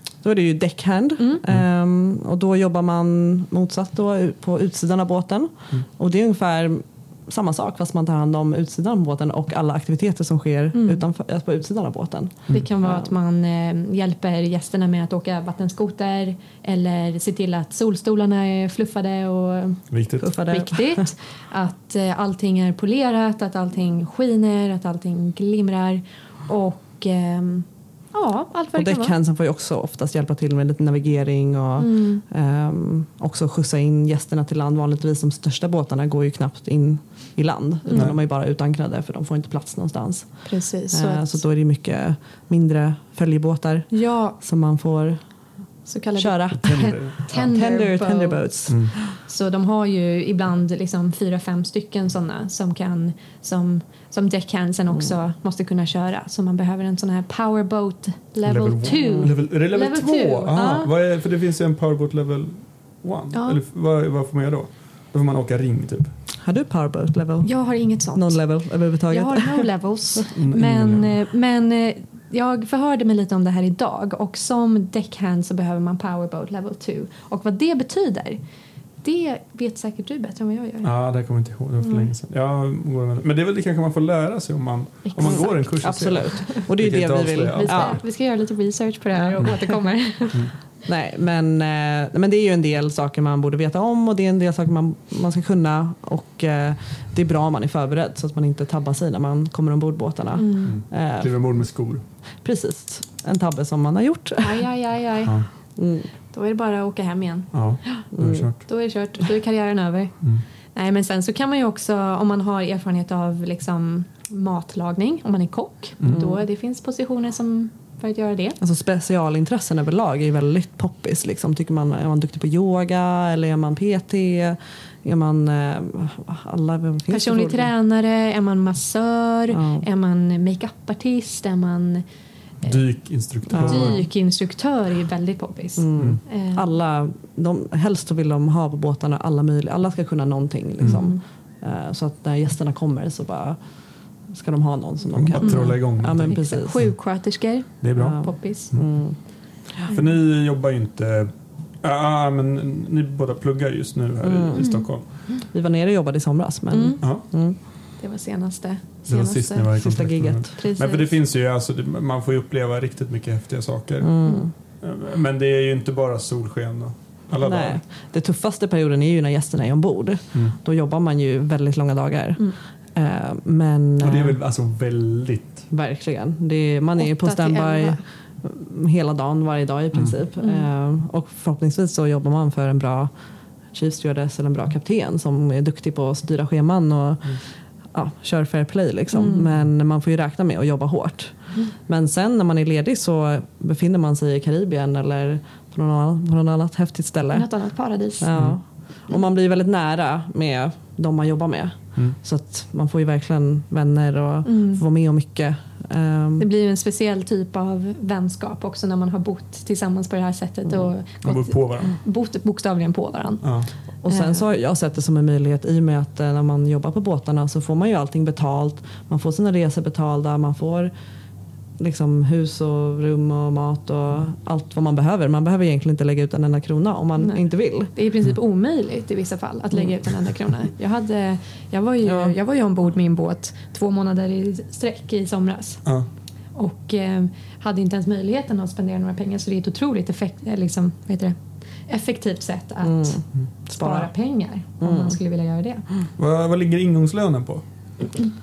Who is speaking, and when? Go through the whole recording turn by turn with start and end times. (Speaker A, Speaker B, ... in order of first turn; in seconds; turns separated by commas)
Speaker A: 0.2-13.1, Speaker B: 10.7-11.0, Speaker B: 12.5-29.2, Speaker C: 19.9-20.3, Speaker A: 20.2-21.1, Speaker A: 28.7-49.1, Speaker B: 31.8-32.2, Speaker B: 37.9-38.1, Speaker C: 37.9-38.2, Speaker B: 40.4-41.4, Speaker B: 43.9-44.4, Speaker B: 45.9-60.6, Speaker C: 46.5-47.5, Speaker C: 48.7-49.0, Speaker C: 58.5-66.2, Speaker A: 59.0-59.4, Speaker A: 60.5-60.9, Speaker B: 63.3-63.6, Speaker A: 66.4-69.8, Speaker B: 67.4-78.5, Speaker C: 70.3-71.2, Speaker B: 79.0-81.0, Speaker C: 80.8-88.0, Speaker B: 81.8-82.1, Speaker B: 85.0-86.6, Speaker A: 85.2-88.0, Speaker B: 87.6-90.5, Speaker A: 89.1-90.0, Speaker C: 90.1-90.5, Speaker A: 90.8-101.6, Speaker B: 100.4-100.8, Speaker C: 100.6-102.0, Speaker A: 102.4-104.7, Speaker B: 104.4-105.8, Speaker A: 105.8-106.1, Speaker B: 106.3-108.0, Speaker C: 107.5-108.7, Speaker A: 108.1-108.5, Speaker B: 108.7-118.6, Speaker C: 116.0-116.3, Speaker A: 116.1-116.4, Speaker A: 118.6-127.7, Speaker B: 127.1-132.1, Speaker A: 129.5-129.9, Speaker C: 132.6-134.1, Speaker A: 133.5-134.1, Speaker B: 133.6-136.7, Speaker A: 135.8-146.9, Speaker C: 136.0-136.2, Speaker C: 140.8-141.2, Speaker B: 140.8-141.2, Speaker C: 145.1-147.0, Speaker B: 145.4-148.8, Speaker C: 147.8-155.4, Speaker A: 148.0-149.8, Speaker A: 154.2-157.6, Speaker B: 154.6-155.4, Speaker B: 156.7-159.9, Speaker C: 157.0-157.3, Speaker C: 159.1-167.8, Speaker A: 159.7-160.7, Speaker B: 160.6-161.2, Speaker A: 164.0-164.6, Speaker A: 167.4-174.4, Speaker C: 170.3-170.6, Speaker C: 174.0-175.7, Speaker A: 175.7-206.5, Speaker B: 177.0-178.0, Speaker C: 179.9-180.2, Speaker B: 180.4-180.7, Speaker B: 189.1-189.5, Speaker B: 197.3-199.2, Speaker C: 198.3-198.6, Speaker B: 204.4-204.8, Speaker B: 206.4-214.5, Speaker A: 210.7-210.9, Speaker C: 211.2-212.0, Speaker C: 213.4-213.7, Speaker A: 214.0-220.9, Speaker A: 221.8-227.9, Speaker B: 227.2-245.8, Speaker A: 232.0-232.3, Speaker A: 242.8-244.1, Speaker A: 244.8-245.2, Speaker C: 246.2-247.6